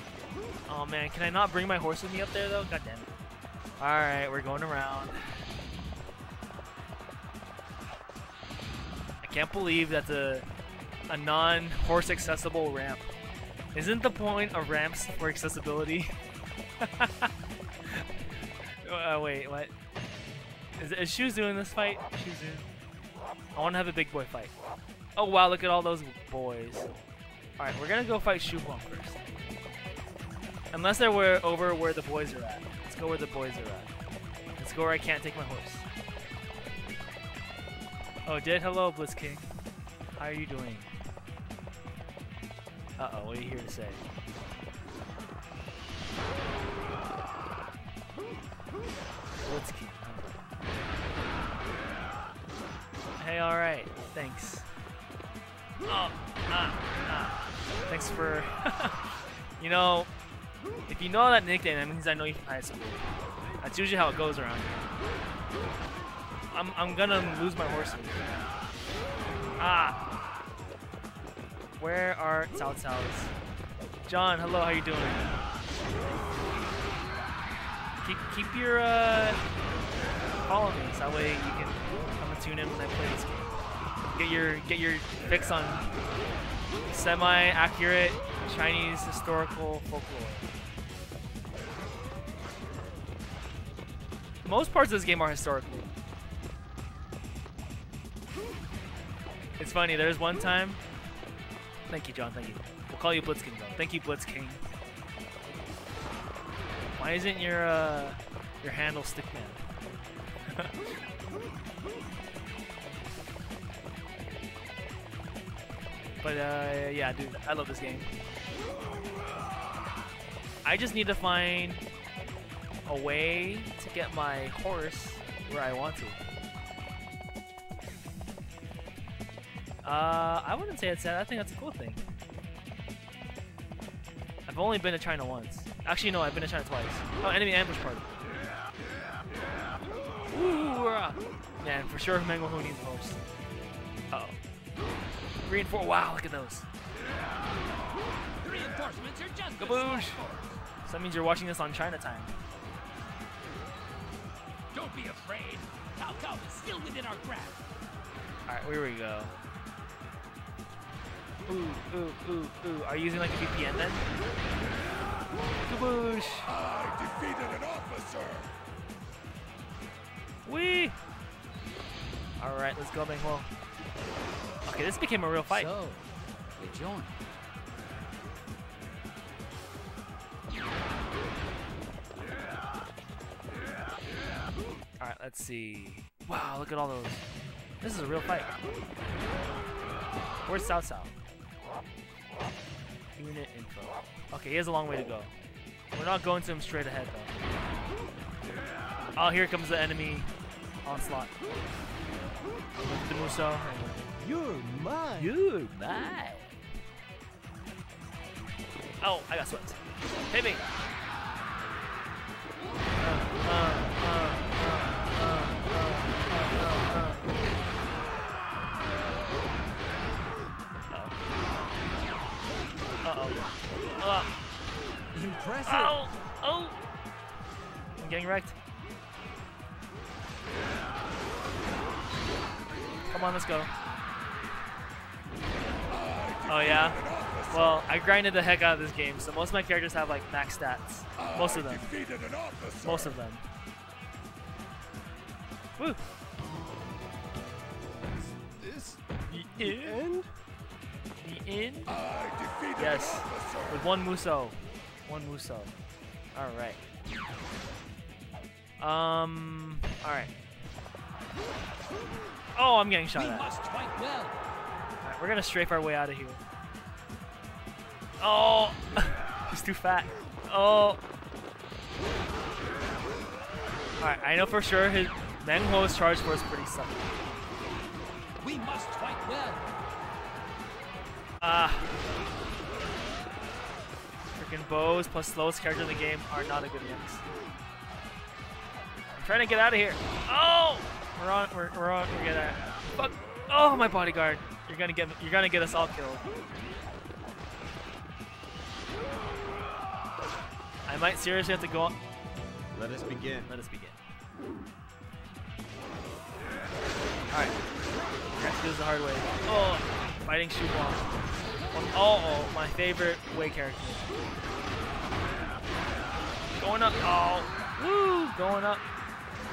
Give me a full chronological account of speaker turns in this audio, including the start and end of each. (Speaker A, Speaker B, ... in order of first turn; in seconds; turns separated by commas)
Speaker A: 0.7-3.1, Speaker A: 3.8-5.4, Speaker A: 9.2-10.5, Speaker A: 11.1-13.1, Speaker A: 13.7-16.1, Speaker A: 16.8-17.3, Speaker A: 18.8-19.7, Speaker A: 20.8-22.7, Speaker A: 23.6-24.5, Speaker A: 25.2-26.9, Speaker A: 27.6-29.2, Speaker A: 30.7-33.9, Speaker A: 34.6-35.9, Speaker A: 38.3-39.5, Speaker A: 40.2-40.9, Speaker A: 43.0-44.0, Speaker A: 49.5-50.3, Speaker A: 53.2-54.7, Speaker A: 55.9-59.0, Speaker A: 59.6-60.1, Speaker A: 60.9-63.0, Speaker A: 63.6-64.8, Speaker A: 66.5-68.3, Speaker A: 69.6-70.0, Speaker A: 71.8-73.3, Speaker A: 74.1-75.4, Speaker A: 76.0-76.6, Speaker A: 78.0-79.4, Speaker A: 80.5-83.6, Speaker A: 84.1-85.9, Speaker A: 86.9-90.5, Speaker A: 94.4-95.9, Speaker A: 99.6-100.8, Speaker A: 101.9-104.6, Speaker A: 107.0-109.6, Speaker A: 110.5-110.9, Speaker A: 116.2-118.1, Speaker A: 120.6-121.8, Speaker A: 122.9-126.2, Speaker A: 129.8-132.0, Speaker A: 134.5-138.2, Speaker A: 140.3-143.2, Speaker A: 144.1-144.4, Speaker A: 145.4-146.7, Speaker B: 148.4-150.5, Speaker A: 149.6-150.2, Speaker A: 150.8-152.3, Speaker B: 154.7-157.6, Speaker A: 158.5-159.3, Speaker A: 161.5-164.1, Speaker A: 165.6-166.5, Speaker C: 166.6-168.5, Speaker A: 170.4-171.0, Speaker A: 172.4-173.5, Speaker A: 174.7-175.7, Speaker B: 175.5-177.2, Speaker A: 185.0-187.3, Speaker A: 187.8-188.6, Speaker A: 190.5-191.1, Speaker A: 193.2-195.3, Speaker A: 195.9-197.3, Speaker A: 199.2-200.3, Speaker A: 200.8-201.3, Speaker A: 202.8-204.1, Speaker B: 204.2-205.3, Speaker A: 205.2-206.5, Speaker A: 209.0-210.6, Speaker A: 213.0-217.3, Speaker A: 220.9-221.2, Speaker A: 223.0-223.4, Speaker A: 224.0-224.3, Speaker B: 225.1-226.0, Speaker A: 225.7-226.8, Speaker A: 228.0-228.6, Speaker A: 233.1-233.7, Speaker C: 236.0-237.5, Speaker A: 236.5-242.0, Speaker C: 241.9-243.1, Speaker A: 242.8-243.4, Speaker B: 248.5-250.3, Speaker A: 249.3-250.0, Speaker A: 251.2-252.1, Speaker C: 252.0-253.6, Speaker A: 252.7-255.7, Speaker A: 256.4-256.8, Speaker A: 258.8-260.3, Speaker A: 262.6-263.5, Speaker B: 263.1-264.4, Speaker A: 265.0-266.4, Speaker A: 268.2-271.0, Speaker A: 274.0-277.2, Speaker B: 278.4-279.7, Speaker A: 281.4-281.9, Speaker A: 284.4-287.2, Speaker A: 289.2-296.2, Speaker A: 300.9-302.0, Speaker B: 302.8-303.5, Speaker A: 303.4-304.0, Speaker A: 308.3-311.1, Speaker A: 311.7-314.1, Speaker A: 316.6-318.9